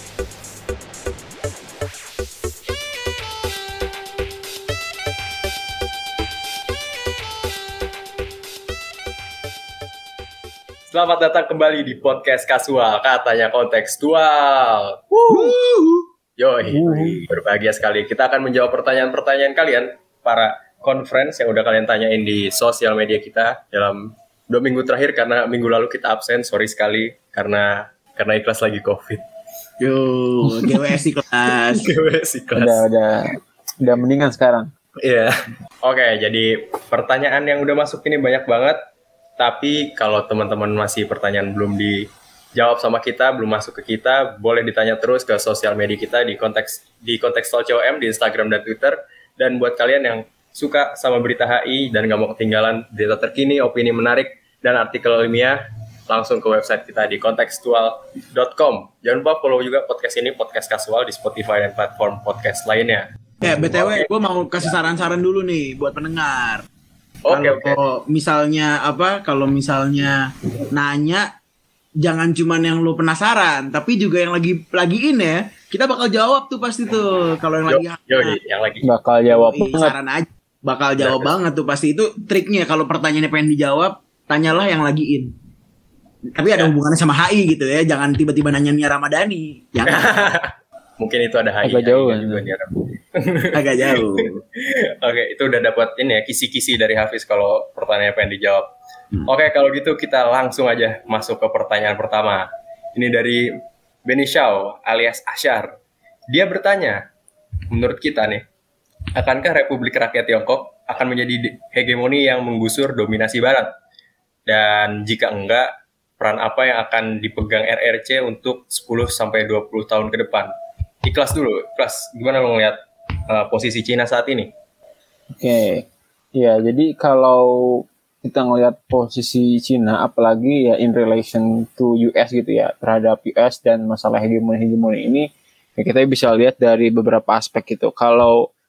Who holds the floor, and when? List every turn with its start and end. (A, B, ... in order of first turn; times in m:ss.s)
0:10.9-0:15.6 A
0:15.3-0:16.0 B
0:16.4-0:29.2 A
0:16.7-0:17.2 C
0:29.8-0:31.9 B
0:30.4-0:31.0 A
0:31.8-0:32.8 A
0:32.6-0:34.7 C
0:35.0-0:35.3 A
0:35.8-0:38.8 A
0:39.4-1:03.1 A
1:03.4-1:06.6 B
1:03.6-1:04.7 A
1:07.2-1:07.8 A
1:07.3-1:11.3 B
1:12.0-1:18.4 B
1:17.7-1:18.9 A
1:18.8-1:19.9 C
1:19.3-1:25.3 B
1:21.0-1:21.3 A
1:26.3-1:30.2 B
1:29.9-1:38.7 A
1:31.6-1:32.5 C
1:33.5-1:34.4 B
1:39.2-1:43.5 A
1:44.1-1:45.7 A
1:46.3-1:47.0 A
1:47.7-1:48.4 A
1:49.1-1:53.7 A
1:54.5-2:00.5 A
2:01.0-2:04.5 A
2:05.4-2:18.5 C